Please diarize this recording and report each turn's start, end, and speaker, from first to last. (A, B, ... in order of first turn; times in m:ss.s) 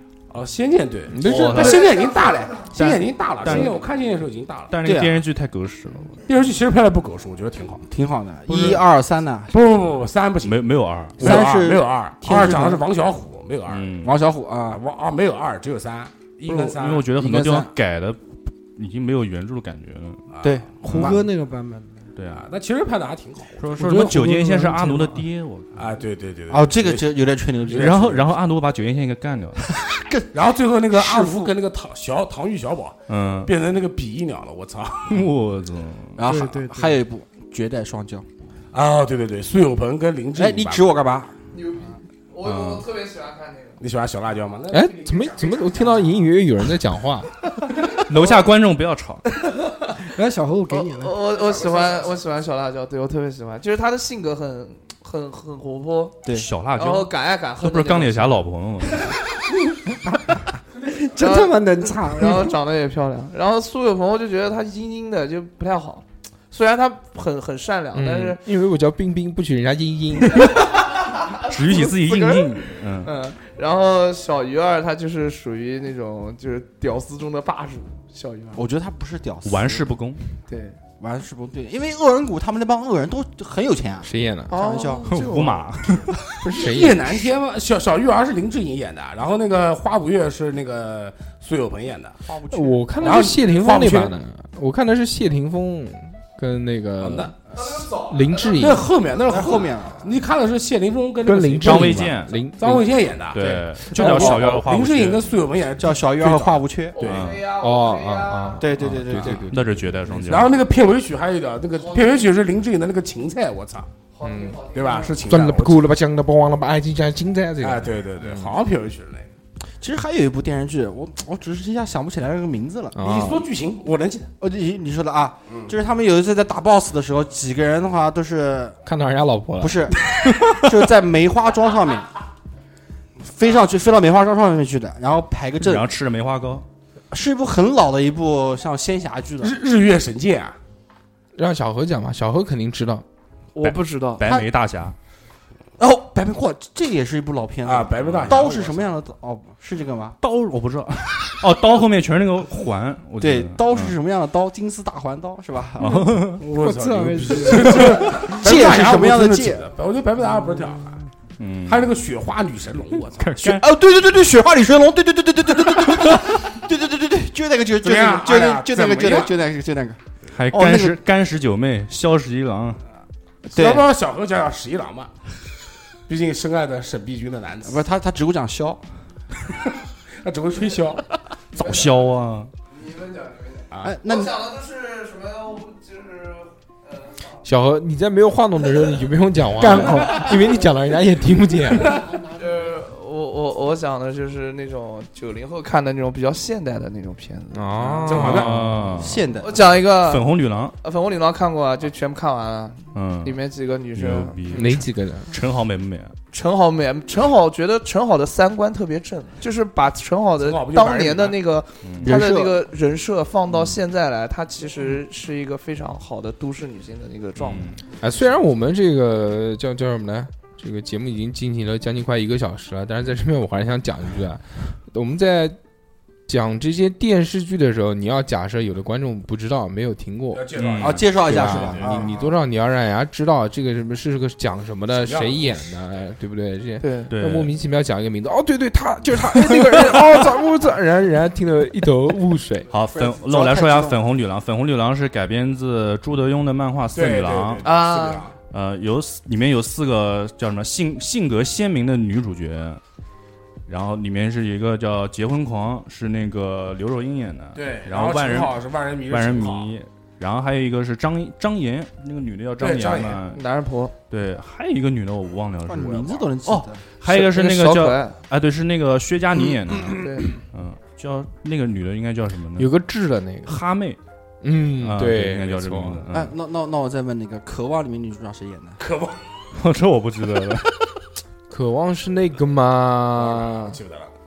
0:00.3-0:04.8 A
0:01.1-0:01.8 B
0:01.2-0:02.0 C
0:02.6-0:03.8 C
0:04.7-0:06.2 C
0:04.8-0:05.2 D
0:06.3-0:07.8 A
0:07.9-0:09.6 D
0:08.5-0:08.8 C
0:09.5-0:14.0 A
0:10.4-0:11.4 C
0:11.2-0:12.9 D
0:13.7-0:14.2 C
0:14.0-0:14.8 D
0:14.7-0:17.1 A
0:16.6-0:17.7 D
0:16.7-0:20.2 C
0:20.3-0:21.2 A
0:20.4-0:21.2 D
0:20.8-0:22.1 E
0:20.9-0:21.2 C
0:22.2-0:22.5 C
0:22.3-0:24.0 A
0:23.6-0:25.7 C
0:23.8-0:25.3 E
0:25.8-0:28.2 A
0:26.5-0:28.2 D
0:27.7-0:29.8 C
0:29.7-0:30.3 D
0:30.3-0:35.3 A
0:30.9-0:31.6 D
0:33.1-0:33.5 C
0:35.1-0:36.2 C
0:36.2-0:38.3 D
0:36.2-0:37.0 E
0:38.7-0:41.0 A
0:40.4-0:41.3 D
0:41.5-0:43.8 F
0:42.4-0:42.9 C
0:43.8-0:46.1 A
0:44.7-0:47.4 B
0:47.9-0:49.3 C
0:49.3-0:50.1 F
0:50.1-0:51.2 E
0:50.7-0:56.2 F
0:51.4-0:52.1 A
0:56.2-0:56.5 D
0:56.3-0:59.2 C
0:56.8-0:58.4 F
1:00.8-1:02.6 E
1:01.2-1:08.4 F
1:07.9-1:10.5 B
1:10.4-1:18.6 F
1:11.4-1:13.1 C
1:18.6-1:19.9 D
1:19.4-1:20.2 C
1:20.5-1:20.8 F
1:21.0-1:25.1 D
1:24.0-1:24.6 B
1:24.5-1:25.8 F
1:25.0-1:26.5 C
1:26.4-1:27.1 B
1:26.5-1:32.2 A
1:32.2-1:32.9 D
1:32.5-1:37.3 B
1:33.0-1:34.2 A
1:37.0-1:37.4 A
1:37.6-1:38.8 F
1:38.1-1:38.9 B
1:38.5-1:47.3 A
1:39.2-1:40.2 D
1:41.2-1:42.9 B
1:41.6-1:42.5 C
1:43.3-1:45.2 C
1:43.4-1:44.6 D
1:45.8-1:47.0 D
1:47.0-1:48.7 F
1:47.0-1:47.4 C
1:47.6-1:50.0 B
1:48.6-1:49.4 D
1:49.0-1:50.6 C
1:50.1-1:53.9 A
1:51.8-1:52.2 F
1:54.1-1:55.2 F
1:54.2-1:54.6 B
1:54.7-1:55.9 A
1:55.3-1:58.5 B
1:57.6-1:59.3 A
1:59.8-2:03.0 D
2:03.0-2:03.4 B
2:03.0-2:04.3 A
2:04.4-2:08.8 D
2:05.5-2:05.7 A
2:08.8-2:09.8 B
2:09.6-2:12.1 D
2:13.2-2:15.9 D
2:15.6-2:16.6 C
2:17.1-2:19.6 D
2:19.4-2:20.6 A
2:21.4-2:23.0 B
2:23.6-2:24.3 F
2:23.6-2:25.0 C
2:24.2-2:24.5 D
2:25.8-2:30.2 D
2:27.6-2:28.9 A
2:28.1-2:28.4 C
2:30.2-2:34.0 C
2:33.2-2:36.3 D
2:35.8-2:36.4 C
2:36.4-2:41.0 A
2:36.4-2:38.3 E
2:38.1-2:39.6 D
2:41.4-2:41.9 C
2:41.7-2:43.4 A
2:43.2-2:43.7 C
2:43.4-2:51.0 D
2:47.8-2:49.4 A
2:50.3-2:52.8 C
2:53.5-2:55.1 A
2:53.5-2:53.9 D
2:56.1-2:57.8 A
2:57.6-2:58.8 D
3:00.2-3:01.1 A
3:01.5-3:02.5 C
3:01.6-3:01.9 A
3:02.7-3:07.3 F
3:03.7-3:04.0 A
3:03.8-3:04.3 D
3:07.4-3:12.0 B
3:09.6-3:10.3 E
3:09.9-3:10.3 F
3:12.0-3:18.3 F
3:17.5-3:18.7 B
3:18.0-3:18.6 A
3:18.2-3:19.3 C
3:19.0-3:19.6 D
3:19.4-3:24.6 F
3:19.9-3:20.8 C
3:22.9-3:23.4 C
3:23.9-3:26.2 C
3:24.5-3:25.3 B
3:26.3-3:37.8 F
3:30.4-3:31.4 A
3:31.8-3:32.2 C
3:32.0-3:32.6 D
3:37.4-3:37.8 C
3:38.0-3:45.6 B
3:46.3-3:50.5 B
3:50.3-3:52.3 A
3:50.6-3:51.1 C
3:50.8-3:52.2 D
3:51.2-4:02.7 B
3:54.9-3:55.8 A
3:56.8-3:57.1 F
3:57.1-3:57.5 C
4:02.7-4:07.7 C
4:02.9-4:04.0 D
4:06.9-4:08.4 A
4:07.6-4:08.3 F
4:08.5-4:12.8 C
4:13.7-4:23.4 C
4:17.6-4:19.8 A
4:22.6-4:23.2 A
4:23.3-4:24.0 F
4:24.1-4:32.7 C
4:25.7-4:26.8 D
4:27.0-4:28.2 F
4:30.0-4:30.4 F
4:32.6-4:33.6 B
4:33.4-4:34.0 C
4:34.4-4:36.0 B
4:34.8-4:36.4 C
4:36.1-4:38.8 D
4:38.8-4:39.2 A
4:39.5-4:40.9 C
4:41.5-4:43.8 B
4:43.1-4:44.2 A